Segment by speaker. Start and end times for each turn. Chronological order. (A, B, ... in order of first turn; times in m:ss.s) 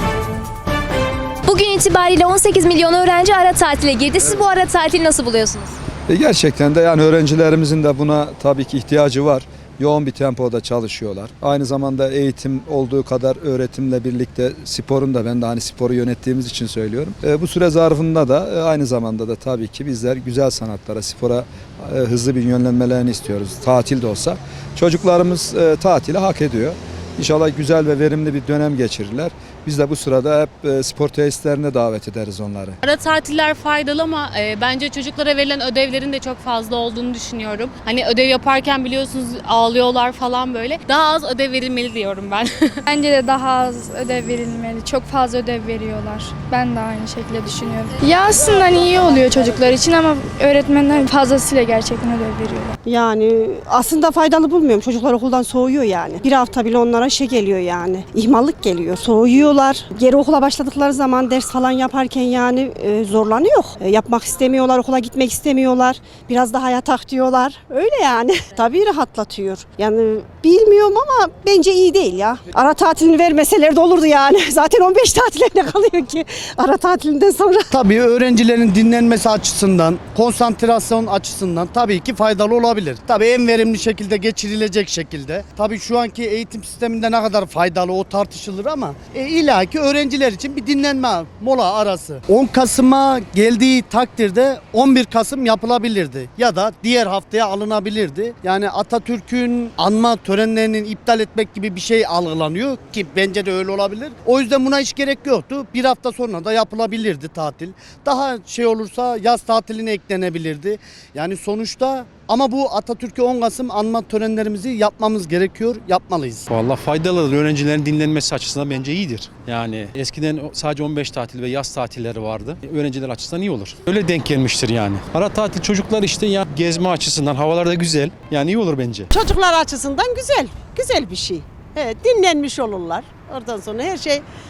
0:01.5-0:05.8 A
0:06.1-0:32.8 B
0:32.9-0:42.7 C
0:42.9-0:52.7 D
0:52.9-1:17.7 E
1:17.7-1:56.5 F
1:56.5-2:09.1 G
2:09.1-2:14.2 H